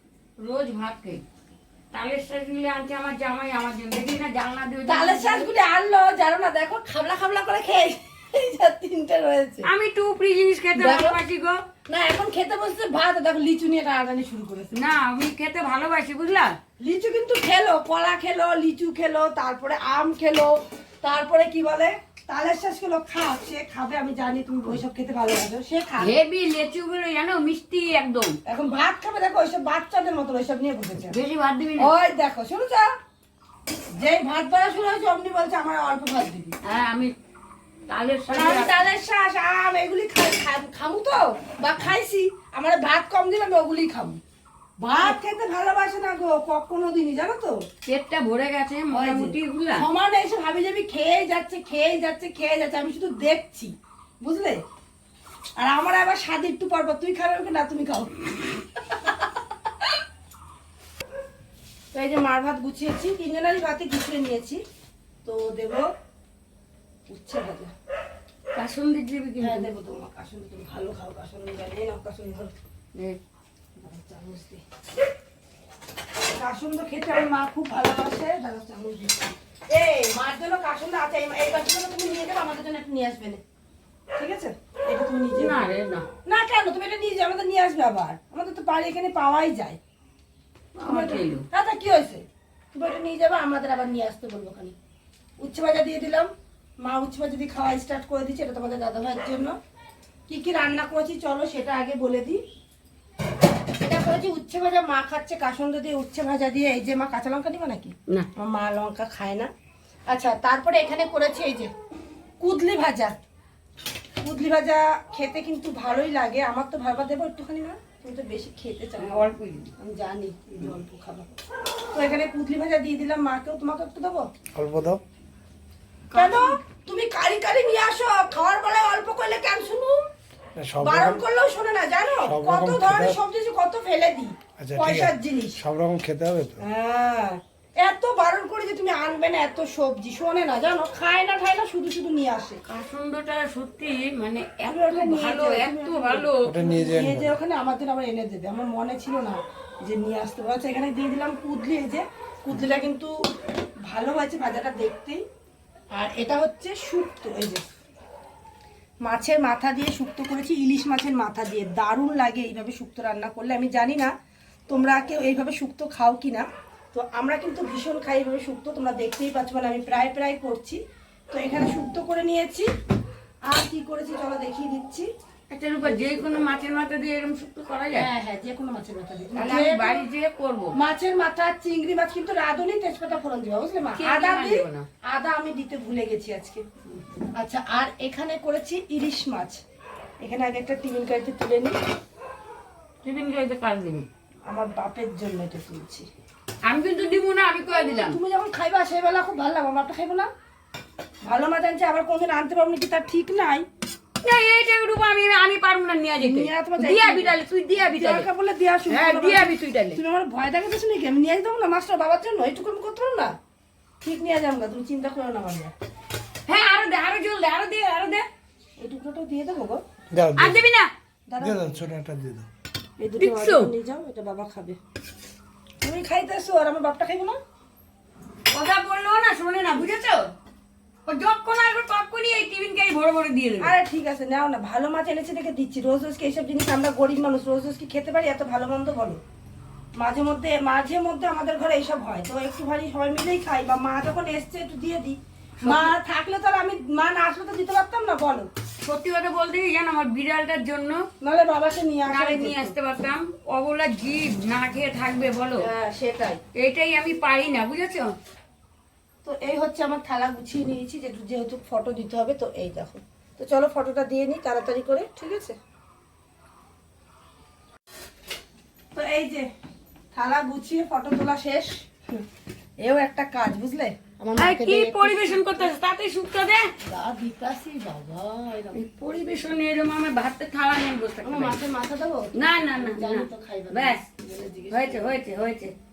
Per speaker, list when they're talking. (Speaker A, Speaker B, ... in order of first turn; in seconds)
Speaker A: 0.4-1.2, 1.9-5.5, 9.6-11.6, 14.7-16.6, 26.0-28.4, 31.1-31.9, 36.6-37.1, 37.9-38.7, 47.9-49.9, 68.5-69.7, 85.3-86.0, 90.8-91.4, 119.0-119.7, 126.1-126.6, 142.7-146.6, 175.5-178.1, 179.3-180.7, 183.9-184.9, 193.0-194.1, 196.6-198.2, 204.2-208.2, 208.9-210.0, 216.5-218.2, 220.3-220.9, 223.2-223.7, 228.5-230.3, 231.1-233.7, 245.6-245.9, 248.8-251.1, 252.1-255.7, 256.5-258.1, 274.4-276.7, 278.7-281.6, 282.3-284.0, 284.7-285.7
Speaker B: 4.8-9.7, 10.7-11.2, 11.8-14.7, 16.8-26.1, 28.5-31.2, 31.8-32.9, 34.0-36.5, 38.3-44.2, 44.8-47.6, 48.9-54.6, 55.6-58.2, 61.9-64.6, 65.2-65.9, 67.1-67.7, 69.4-72.5, 73.8-74.6, 76.3-83.4, 84.1-85.7, 86.2-89.8, 90.8-94.7, 95.4-99.5, 100.3-102.4, 103.8-109.5, 110.1-111.7, 112.4-113.2, 114.2-121.3, 121.9-124.3, 126.1-130.1, 130.8-135.6, 136.6-142.6, 144.6-153.1, 153.8-155.2, 155.9-157.6, 159.0-164.1, 164.7-172.7, 173.4-175.1, 175.8-176.5, 177.9-180.1, 180.7-186.6, 187.3-189.6, 190.2-191.8, 194.4-196.1, 197.7-200.3, 201.2-203.7, 206.2-213.3, 214.0-215.7, 218.8-219.8, 221.3-221.9, 223.0-224.8, 225.8-227.4, 233.6-239.2, 239.9-248.5, 251.2-252.7, 255.6-256.4, 259.2-265.6, 268.9-269.5, 270.1-272.2, 272.8-275.7, 276.8-278.8, 281.2-285.1
Speaker C: 124.5-125.0, 130.6-131.2, 132.2-133.2, 134.6-136.6, 146.4-147.3, 220.1-220.6, 221.4-222.5